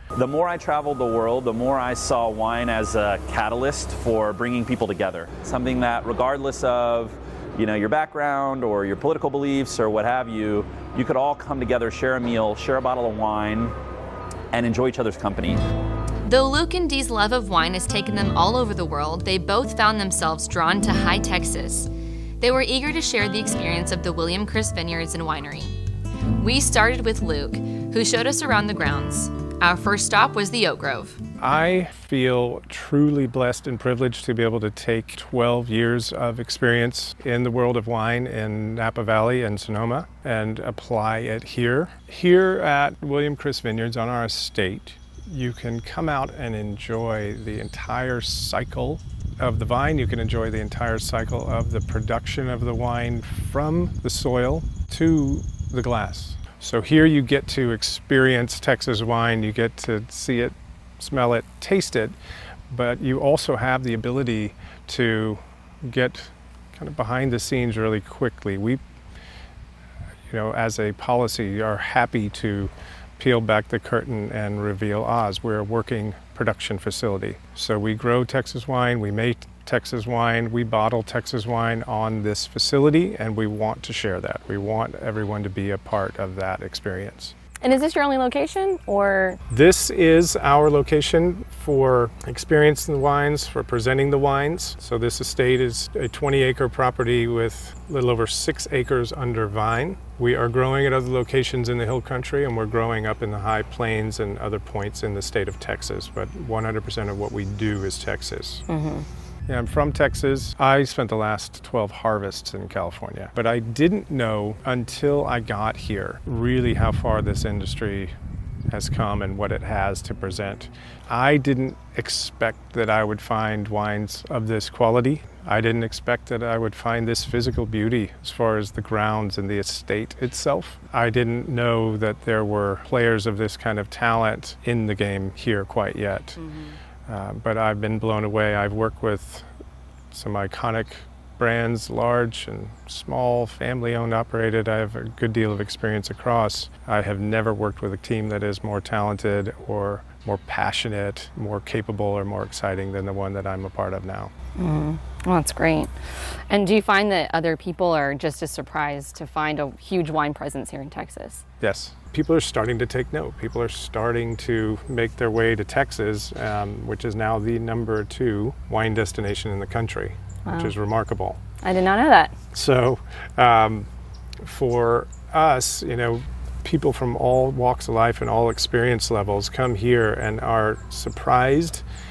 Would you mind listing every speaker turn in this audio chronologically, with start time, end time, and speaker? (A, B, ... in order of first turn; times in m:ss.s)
0:00.2-0:13.8 A
0:14.5-0:15.6 A
0:16.2-0:21.9 B
0:22.4-0:25.7 B
0:26.4-0:31.2 B
0:31.4-1:02.2 C
1:02.7-1:08.8 C
1:10.3-1:27.4 C
1:27.6-1:29.4 D
1:29.5-1:48.6 C
1:48.7-1:49.1 D
1:49.5-1:58.1 C
1:58.7-2:16.4 C
2:16.4-2:16.8 D
2:17.1-2:19.5 C
2:20.1-2:34.3 C
2:34.6-2:35.9 D
2:36.5-2:41.4 D
2:41.6-2:51.4 C
2:50.5-2:50.8 D
2:51.6-2:52.3 D
2:52.5-2:53.9 C
2:54.4-3:01.8 C